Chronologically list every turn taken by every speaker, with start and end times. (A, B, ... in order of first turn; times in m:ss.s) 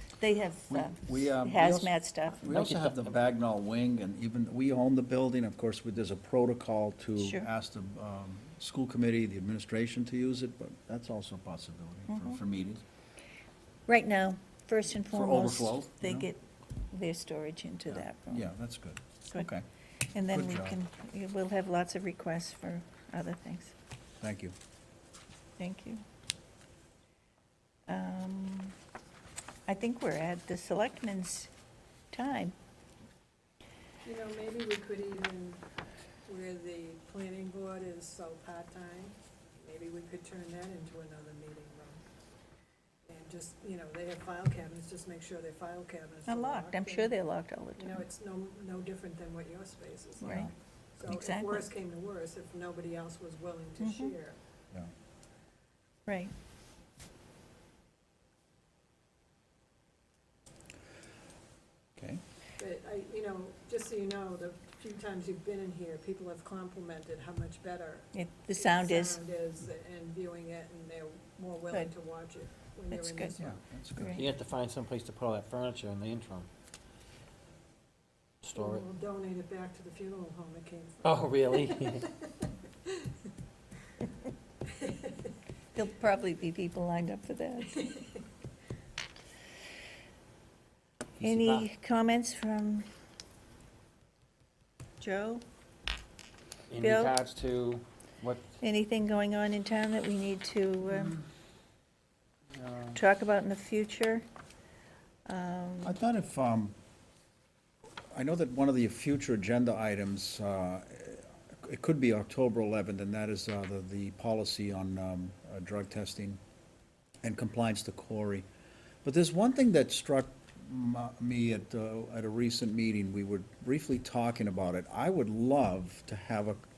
0:00.2-0:02.5 A
0:00.7-0:12.8 B
0:02.5-0:03.2 C
0:07.2-0:07.5 A
0:12.1-0:12.4 A
0:13.9-0:18.5 A
0:15.1-0:16.3 B
0:17.9-0:19.6 B
0:20.1-0:23.8 A
0:20.3-0:20.8 B
0:24.2-0:24.6 B
0:25.6-0:26.0 A
0:27.9-0:28.8 A
0:29.7-0:31.5 A
0:32.1-0:32.6 A
0:34.0-0:35.6 D
0:36.3-0:42.0 D
0:43.1-0:47.1 D
0:46.3-0:48.0 A
0:47.8-0:54.4 D
0:50.2-0:50.5 A
0:50.2-0:50.5 B
0:51.0-0:51.7 A
0:53.8-0:54.1 A
0:56.1-0:56.3 A
1:02.6-1:13.6 D
1:08.1-1:09.2 A
1:12.9-1:13.3 A
1:13.4-1:14.2 B
1:14.0-1:14.3 A
1:14.2-1:16.5 C
1:18.4-1:18.8 C
1:18.6-1:23.1 D
1:21.0-1:22.1 C
1:24.8-1:25.1 D
1:25.8-1:27.9 A
1:31.2-1:31.7 C
1:31.2-1:32.9 A
1:35.0-1:35.4 A
1:36.7-1:38.5 C
1:36.8-1:37.2 A
1:38.6-1:41.2 A
1:42.9-1:44.3 A
1:45.3-1:45.9 A
1:45.8-1:46.8 B
1:48.1-1:56.4 B
1:57.2-1:58.5 B
1:59.0-2:06.6 B